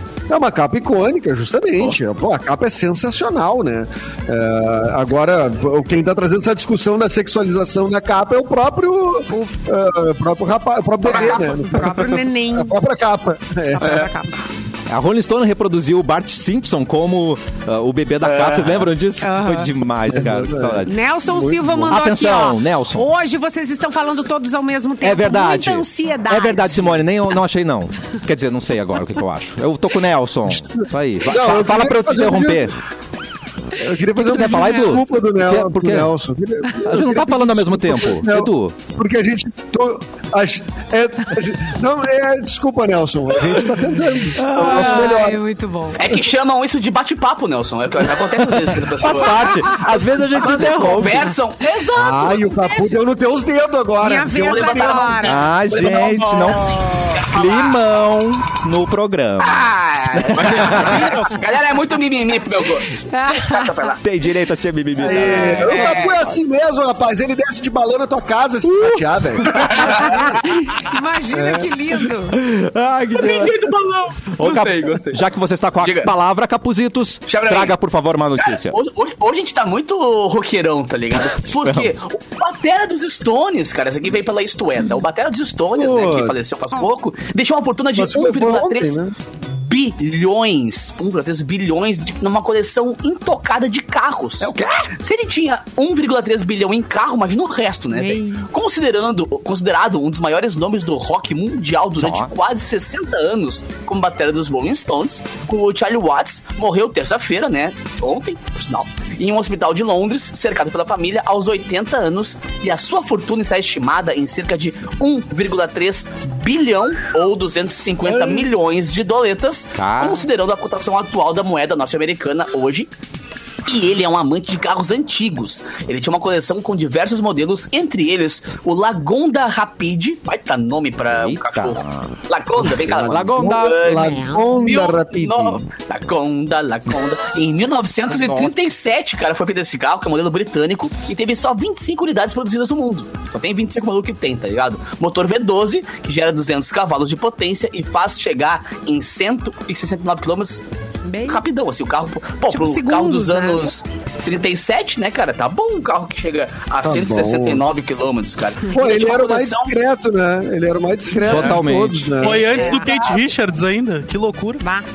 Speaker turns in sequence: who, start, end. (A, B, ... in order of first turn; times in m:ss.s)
0:00.3-0:14.0 A
0:09.3-0:09.6 B
0:11.1-0:12.1 C
0:11.1-0:12.8 B
0:13.7-0:14.4 B
0:14.9-0:20.9 D
0:18.2-0:18.9 C
0:19.2-0:19.7 B
0:20.1-0:22.0 A
0:20.8-0:27.1 B
0:21.9-0:23.1 D
0:25.0-0:32.8 D
0:30.8-0:32.7 A
0:33.8-0:45.4 A
0:34.2-0:36.1 D
0:36.8-0:38.8 D
0:44.4-0:45.3 D
0:44.5-0:46.0 B
0:46.0-0:53.0 C
0:48.5-0:51.3 D
0:51.9-0:55.3 A
0:54.0-0:55.6 B
0:54.4-0:55.3 C
0:55.2-1:01.2 D
0:55.7-0:56.9 E
0:57.1-0:57.8 C
0:59.4-1:04.0 C
1:00.4-1:01.5 E
1:03.0-1:04.0 B
1:04.0-1:06.1 D
1:05.0-1:05.8 B
1:05.0-1:10.2 A
1:05.6-1:06.2 C
1:08.7-1:09.0 D
1:09.4-1:10.1 C
1:10.0-1:12.4 B
1:11.3-1:11.7 A
1:12.3-1:13.6 D
1:13.2-1:15.2 C
1:14.3-1:18.8 D
1:15.8-1:16.1 C
1:17.3-1:17.8 C
1:18.4-1:29.0 C
1:21.4-1:22.0 D
1:25.8-1:26.4 A
1:28.0-1:29.2 A
1:29.5-2:02.9 C
1:34.4-1:34.9 D
1:37.9-1:38.5 B
1:42.0-1:42.3 D
1:58.0-1:58.5 A
1:59.8-2:00.2 D
2:03.7-2:30.6 C
2:11.1-2:12.1 D
2:12.8-2:15.6 A
2:12.9-2:13.9 D
2:14.0-2:14.7 B
2:18.1-2:18.5 D
2:31.0-2:31.4 B
2:31.3-2:39.7 C
2:32.5-2:33.7 B
2:36.8-2:37.6 A
2:38.7-2:42.7 A
2:41.2-2:42.2 D
2:41.3-2:41.5 C
2:42.2-2:44.6 E
2:42.5-2:42.9 B
2:42.6-2:43.2 C